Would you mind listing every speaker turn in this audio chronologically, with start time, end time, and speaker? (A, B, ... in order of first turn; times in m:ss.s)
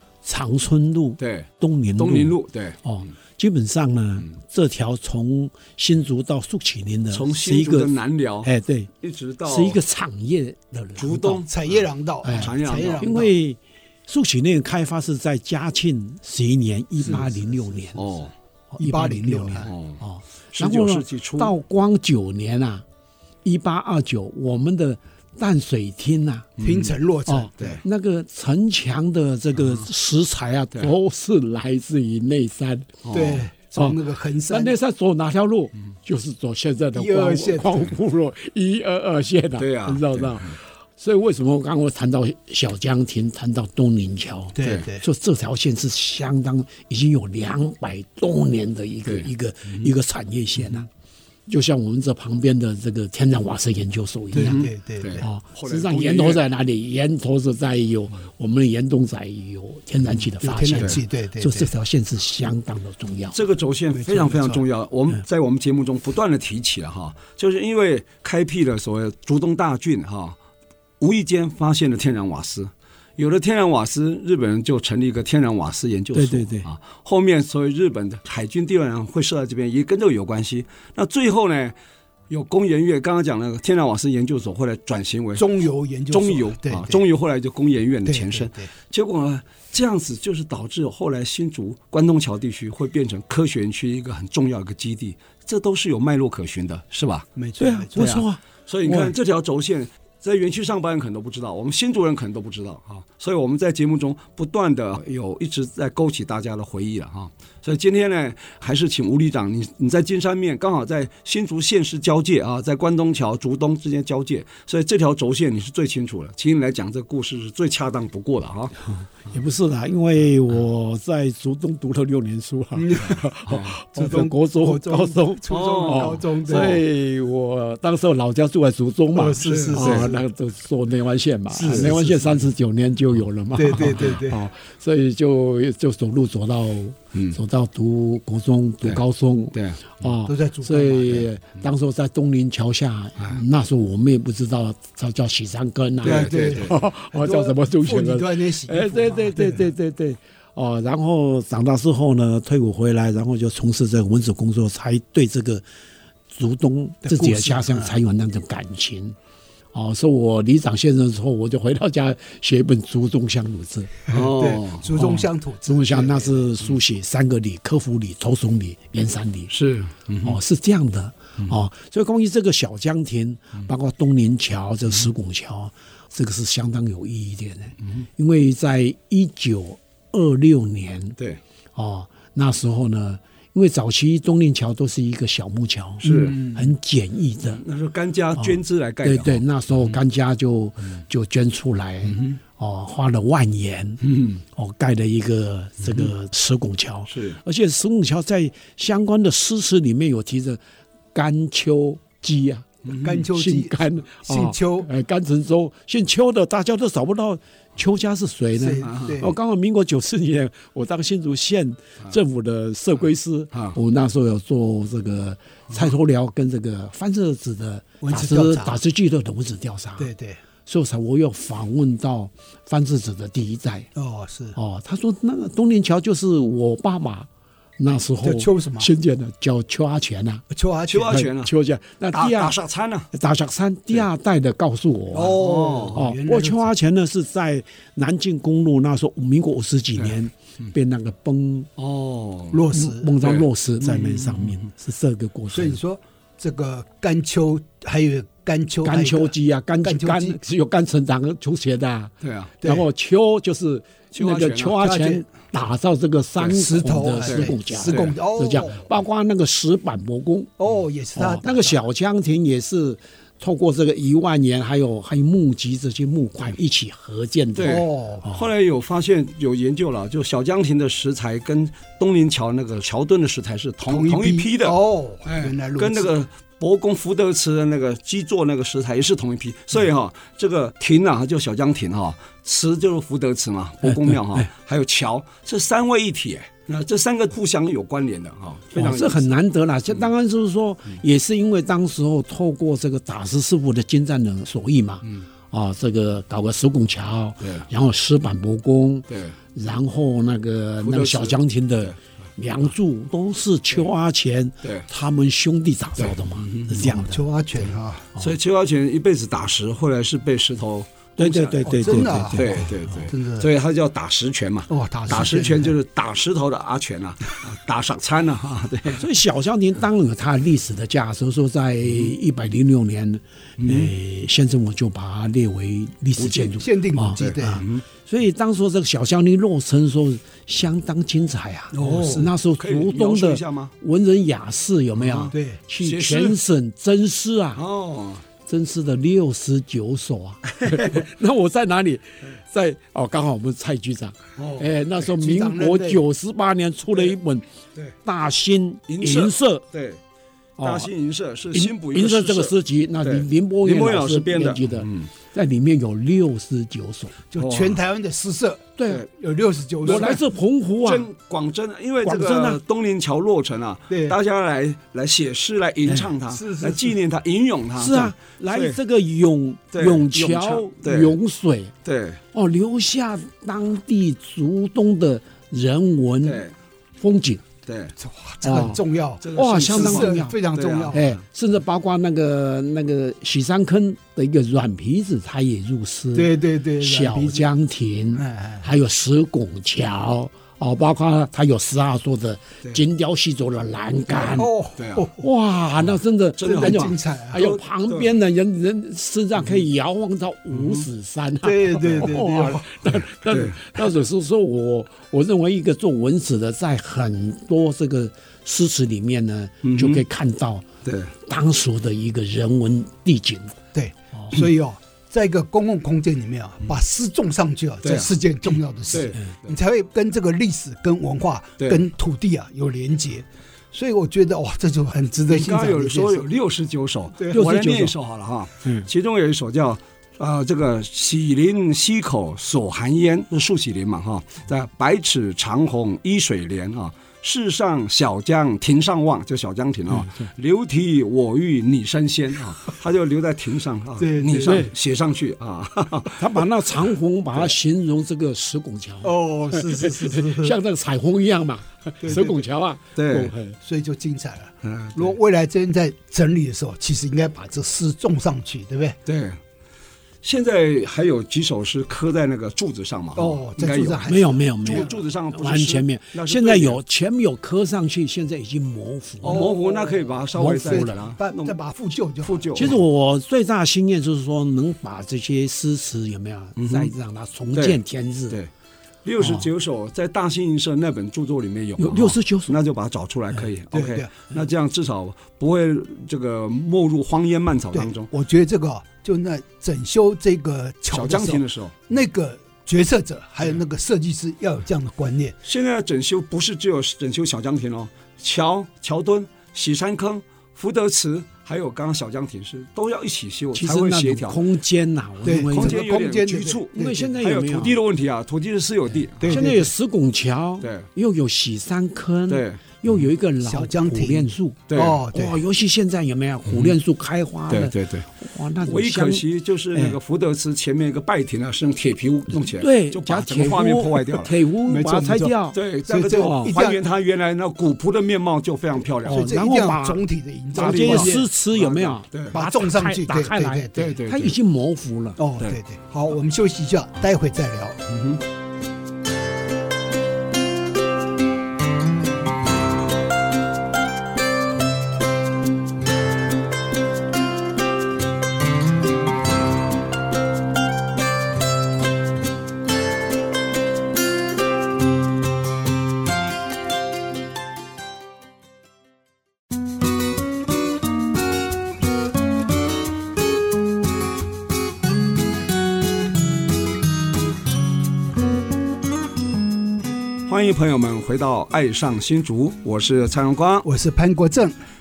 0:00.2-0:07.9 A
0:01.2-0:03.1 B
0:07.1-0:08.5 B
0:08.4-0:08.9 A
0:09.0-0:09.8 B
0:09.4-0:11.4 A
0:11.0-0:11.7 B
0:11.5-0:13.3 C
0:12.2-0:13.1 B
0:12.2-0:18.0 A
0:17.0-0:17.5 C
0:17.9-0:18.3 B
0:18.7-0:22.8 A
0:18.8-0:19.7 C
0:19.6-0:20.0 B
0:20.5-0:21.5 B
0:23.4-0:26.5 A
0:26.6-0:26.9 B
0:26.6-0:27.8 C
0:27.3-0:33.1 A
0:33.0-0:33.4 B
0:33.1-0:34.8 C
0:33.8-0:50.9 A
0:36.9-0:37.9 C
0:39.6-0:40.5 B
0:44.5-0:45.0 C
0:49.1-0:49.9 B
0:51.5-0:54.6 A
0:54.3-0:55.2 C
0:54.3-0:56.4 B
0:55.2-1:03.4 A
1:00.4-1:01.7 C
1:03.3-1:10.4 B
1:03.9-1:04.6 C
1:11.0-1:21.7 B
1:16.1-1:16.7 A
1:22.3-1:37.3 B
1:25.4-1:27.0 C
1:28.0-1:28.7 C
1:37.4-1:38.0 C
1:37.6-1:39.1 A
1:38.0-1:58.7 B
1:59.2-2:35.6 A
2:02.7-2:03.2 C
2:03.5-2:03.7 B
2:03.9-2:06.8 C
2:05.5-2:06.8 B
2:09.1-2:10.2 C
2:09.4-2:10.1 B
2:11.5-2:12.3 C
2:11.6-2:12.0 B
2:13.5-2:14.4 C
2:19.5-2:20.0 B
2:20.2-2:21.3 C
2:26.0-2:26.7 B
2:26.0-2:29.7 C
2:36.3-2:39.2 A
2:37.0-2:37.9 C
2:39.7-2:44.0 A
2:44.1-2:44.8 B
2:44.1-2:46.5 C
2:45.0-2:49.5 A
2:49.5-2:50.4 B
2:50.2-3:01.2 A
3:01.7-3:07.6 A
3:06.0-3:06.4 B
3:06.0-3:06.6 C
3:07.5-3:10.0 B
3:08.4-3:20.6 A
3:12.1-3:12.4 B
3:14.0-3:14.4 B
3:17.1-3:17.4 B
3:21.1-3:40.1 A
3:22.8-3:23.2 B
3:23.0-3:24.9 C
3:28.6-3:29.3 C
3:28.8-3:29.1 B
3:38.0-3:38.8 C
3:40.0-3:40.4 C
3:40.6-3:43.9 A
3:43.9-3:44.6 C
3:44.6-3:50.4 A
3:48.2-3:48.9 C
3:50.5-3:51.2 C
3:50.9-3:51.5 B
3:51.1-3:52.6 A
3:52.1-3:53.1 B
3:53.1-4:01.7 A
3:55.1-3:56.7 C
3:55.3-3:56.0 B
4:00.0-4:00.7 B
4:01.8-4:02.6 B
4:02.5-4:03.1 C
4:02.7-4:05.8 A
4:03.2-4:04.6 B
4:05.5-4:10.4 C
4:08.8-4:20.5 A
4:12.2-4:12.5 B
4:14.1-4:14.9 B
4:14.8-4:15.2 C
4:16.4-4:18.9 C
4:17.2-4:18.1 B
4:20.6-4:21.8 C
4:21.2-4:28.4 A
4:27.6-4:49.3 B
4:27.6-4:28.3 C
4:33.9-4:36.1 C
4:43.8-4:44.5 A
4:48.7-5:07.2 A
4:59.1-4:59.4 B
5:00.8-5:01.9 B
5:06.0-5:06.9 B
5:06.8-5:08.1 C
5:08.2-5:19.0 B
5:11.2-5:13.0 A
5:11.6-5:13.5 C
5:14.7-5:15.7 C
5:19.0-5:37.6 A
5:23.6-5:23.9 B
5:26.2-5:26.5 B
5:26.4-5:27.6 C
5:27.2-5:27.8 B
5:31.7-5:32.3 C
5:31.8-5:33.7 B
5:35.0-5:36.4 B
5:35.3-5:35.6 C
5:37.6-5:38.2 B
5:38.4-5:47.4 A
5:40.5-5:41.0 B
5:44.4-5:44.7 B
5:45.0-5:46.0 C
5:48.0-5:49.6 A
5:48.9-5:50.0 B
5:50.6-5:50.9 A
5:50.6-5:55.1 B
5:51.5-5:57.2 A
5:57.3-6:00.2 C
5:57.4-5:57.8 B
5:58.8-5:59.0 A
5:59.8-6:00.2 B
5:59.8-6:01.1 A
6:00.8-6:08.8 B
6:02.0-6:02.6 A
6:03.9-6:04.2 C
6:05.9-6:07.0 C
6:07.8-6:11.7 A
6:09.7-6:11.2 B
6:11.8-6:12.2 B
6:12.3-6:16.4 A
6:16.2-6:16.5 B
6:17.0-6:17.4 A
6:17.6-6:17.9 B
6:18.0-6:21.0 C
6:18.4-6:18.8 A
6:19.2-6:21.2 B
6:19.3-6:20.4 A
6:20.9-6:34.5 A
6:26.1-6:27.5 C
6:28.2-6:28.7 C
6:34.1-6:35.2 C
6:34.2-6:35.1 B
6:35.2-6:50.6 A
6:36.4-6:38.1 B
6:36.4-6:37.4 C
6:40.5-6:40.8 B
6:41.4-6:42.8 C
6:43.2-6:43.8 B
6:49.6-6:50.0 B
6:50.8-6:51.1 B
6:51.2-6:53.5 A
6:53.7-7:06.3 C
6:57.8-6:58.1 B
6:58.9-6:59.5 B
7:05.3-7:26.4 B
7:07.3-7:07.9 A
7:19.9-7:20.2 A
7:24.0-7:24.7 C
7:24.4-7:24.7 A
7:26.2-7:33.6 A
7:29.0-7:30.6 C
7:32.0-7:32.4 C
7:32.9-7:33.3 B
7:33.6-7:39.0 C
7:34.6-7:35.2 B
7:39.0-7:39.4 B
7:40.2-7:46.8 B
7:43.2-7:44.9 C
7:44.1-7:49.5 A
7:49.2-7:52.7 C
7:49.2-7:51.6 B
7:50.3-7:51.0 A
7:52.2-7:52.8 B
7:52.5-7:58.4 A
7:56.6-7:56.9 B
7:57.5-7:58.5 B
7:59.0-8:08.1 B
7:59.2-7:59.5 A
8:01.8-8:02.6 A
8:03.7-8:04.2 C
8:07.7-8:15.4 C
8:10.9-8:11.7 B
8:15.4-8:24.4 B
8:23.5-8:25.8 A
8:25.2-8:27.1 C
8:25.5-8:29.4 B
8:26.7-8:27.8 A
8:29.2-8:29.7 C
8:29.2-8:39.9 A
8:30.6-8:30.9 B
8:32.3-8:32.8 B
8:33.4-8:35.4 C
8:34.7-8:35.0 B
8:36.5-8:36.8 B
8:37.5-8:38.0 B
8:38.6-8:44.4 B
8:42.5-8:45.6 A
8:44.6-8:45.3 C
8:45.5-8:49.2 B
8:45.9-8:46.8 C
8:46.1-8:46.6 A
8:49.0-8:50.0 A
8:49.0-8:51.2 C
8:50.5-8:55.2 A
8:50.6-8:52.3 B
8:52.3-8:54.0 C
8:53.8-8:54.4 B
8:55.2-8:57.8 C
8:57.9-8:58.2 B
9:30.3-9:33.6 B
9:33.6-9:34.5 C